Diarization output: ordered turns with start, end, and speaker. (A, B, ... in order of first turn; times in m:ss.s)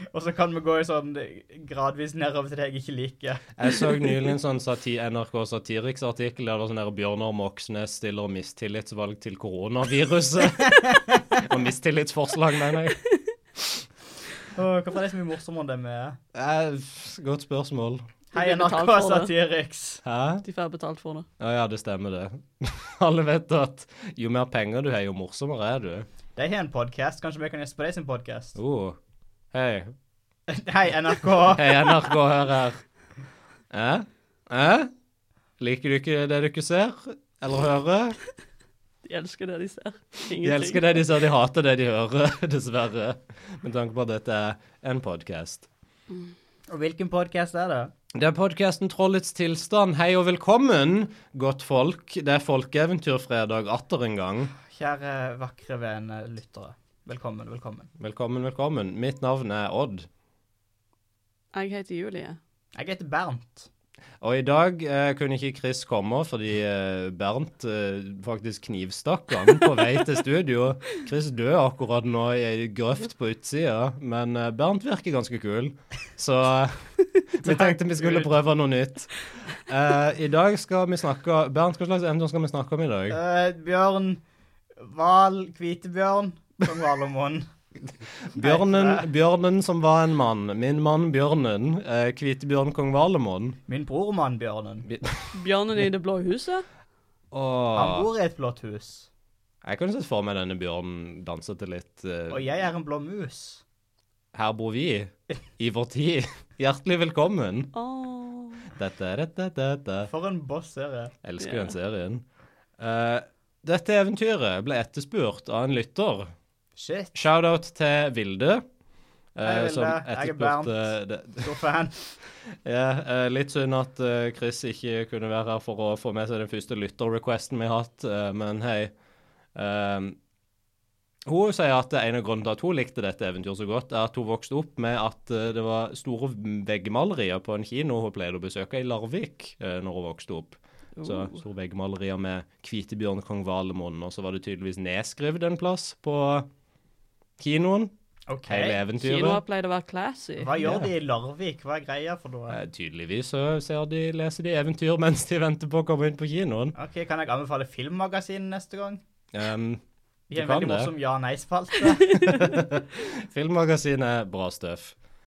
0:00.1-0:04.0 A
0:03.6-0:13.0 B
0:10.6-0:11.4 A
0:14.5-0:16.2 A
0:16.3-0:18.0 B
0:18.3-0:20.0 A
0:18.3-0:19.3 C
0:20.0-0:20.4 B
0:20.4-0:21.3 C
0:21.4-0:26.1 B
0:26.4-0:28.6 A
0:28.6-0:29.0 B
0:29.5-0:29.9 B
0:30.5-0:32.0 A
0:31.4-0:32.8 B
0:33.7-0:34.9 B
0:35.6-0:38.2 B
0:39.0-0:41.2 C
0:40.4-0:45.7 B
0:46.7-0:47.9 A
0:48.1-0:54.5 B
0:54.6-0:57.9 A
0:58.0-1:00.1 B
1:01.5-1:02.4 C
1:02.8-1:03.7 A
1:04.2-1:23.2 B
1:17.4-1:18.3 A
1:23.1-1:24.2 A
1:24.8-1:27.4 A
1:28.3-1:33.6 B
1:28.4-1:29.0 A
1:33.7-1:34.8 A
1:34.8-1:35.4 B
1:35.3-1:36.6 C
1:37.3-1:38.0 B
1:37.7-1:39.1 A
1:39.6-1:42.4 B
1:42.3-1:43.6 A
1:44.3-1:47.7 B
1:47.7-1:48.7 C
1:48.7-1:50.1 B
1:50.1-1:51.1 A
1:51.2-1:52.2 B
1:51.4-1:51.7 C
1:52.8-1:56.3 B
1:56.8-1:57.1 A
1:57.1-1:58.6 B
1:59.3-2:01.5 B
1:59.4-2:01.9 A
2:02.6-2:08.9 B
2:09.5-2:10.2 B
2:11.2-2:26.5 B
2:21.0-2:21.3 C
2:27.4-2:27.9 B
2:28.3-2:28.8 A
2:28.4-2:29.4 B
2:29.0-2:30.5 C
2:30.4-2:32.6 A
2:30.6-2:30.9 B
2:32.5-2:36.8 B
2:36.8-2:39.0 A
2:39.3-2:39.8 B
2:40.3-2:42.3 A
2:40.3-2:40.9 B
2:42.2-2:44.9 B